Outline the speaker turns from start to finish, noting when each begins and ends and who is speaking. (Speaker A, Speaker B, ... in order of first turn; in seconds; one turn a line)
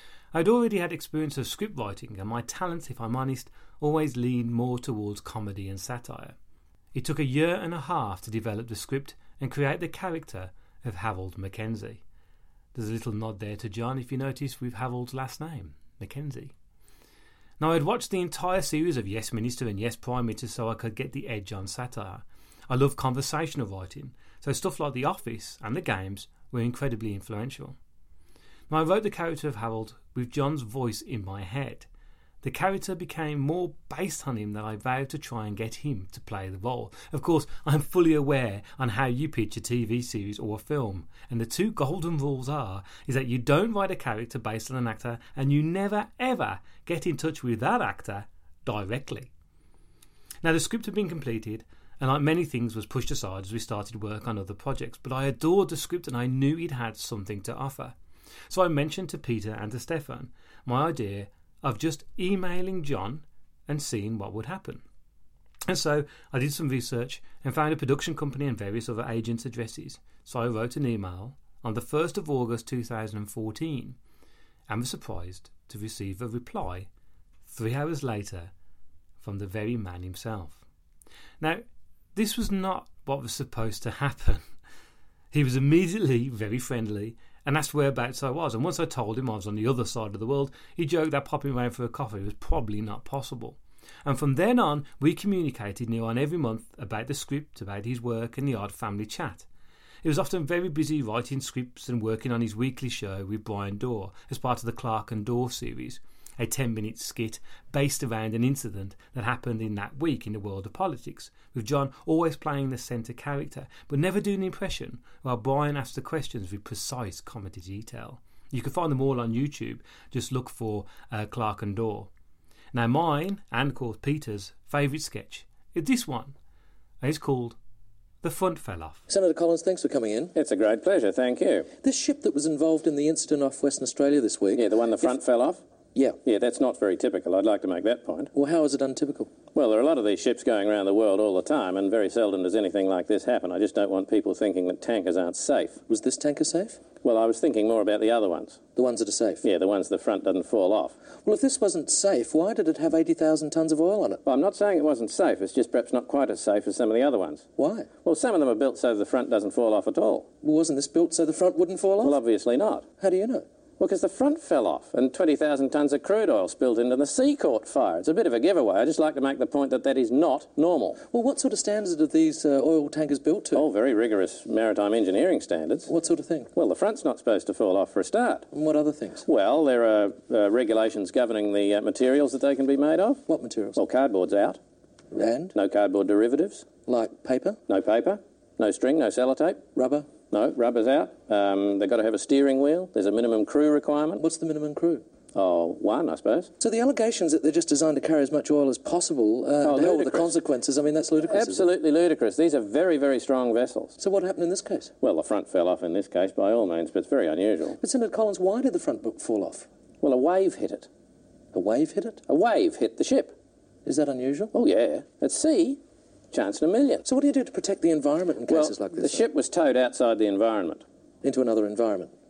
Speaker A: 0.3-6.3
Speaker A: 6.9-12.0
Speaker A: 12.7-16.5
Speaker A: 17.6-27.8
Speaker A: 28.7-31.9
Speaker A: 32.4-49.3
Speaker A: 50.4-58.0
Speaker A: 58.5-64.8
Speaker A: 65.7-74.0
Speaker A: 74.7-76.9
Speaker A: 77.5-78.5
Speaker A: 79.2-80.6
Speaker A: 81.4-84.4
Speaker A: 85.3-99.5
Speaker A: 100.0-122.1
Speaker A: 122.7-126.3
Speaker A: 127.0-127.6
Speaker A: 128.2-129.0
Speaker B: 129.1-130.3
Speaker C: 130.3-131.7
Speaker B: 131.8-134.6
Speaker C: 134.5-135.6
Speaker C: 136.2-138.3
Speaker B: 138.3-139.3
Speaker C: 139.5-145.8
Speaker B: 145.9-146.8
Speaker C: 147.0-148.6
Speaker B: 148.8-149.4
Speaker C: 149.4-151.0
Speaker B: 151.3-154.2
Speaker C: 154.2-157.5
Speaker B: 157.6-157.9
Speaker C: 158.0-160.3
Speaker B: 160.4-162.2
Speaker C: 162.0-162.9
Speaker B: 163.0-163.4
Speaker C: 163.8-171.0
Speaker B: 171.1-173.6
Speaker C: 173.5-175.9
Speaker B: 175.9-176.5
Speaker C: 176.5-178.5
Speaker B: 178.5-179.2
Speaker C: 179.2-183.2
Speaker B: 183.3-183.8
Speaker C: 183.8-184.6
Speaker B: 185.1-185.5
Speaker C: 185.5-186.7
Speaker B: 186.9-187.6
Speaker C: 187.7-189.6
Speaker B: 189.8-190.1
Speaker C: 190.3-194.2
Speaker B: 194.2-195.0
Speaker C: 195.3-196.5
Speaker B: 196.6-201.7
Speaker C: 199.6-200.4
Speaker C: 201.3-204.0
Speaker B: 204.0-204.9
Speaker C: 205.0-207.8
Speaker B: 207.8-209.7
Speaker C: 210.0-210.9
Speaker B: 211.5-212.2
Speaker C: 212.3-213.3
Speaker B: 213.8-214.5
Speaker C: 214.5-215.8
Speaker C: 216.3-217.1
Speaker B: 217.1-219.2
Speaker C: 218.5-220.8
Speaker B: 221.2-222.1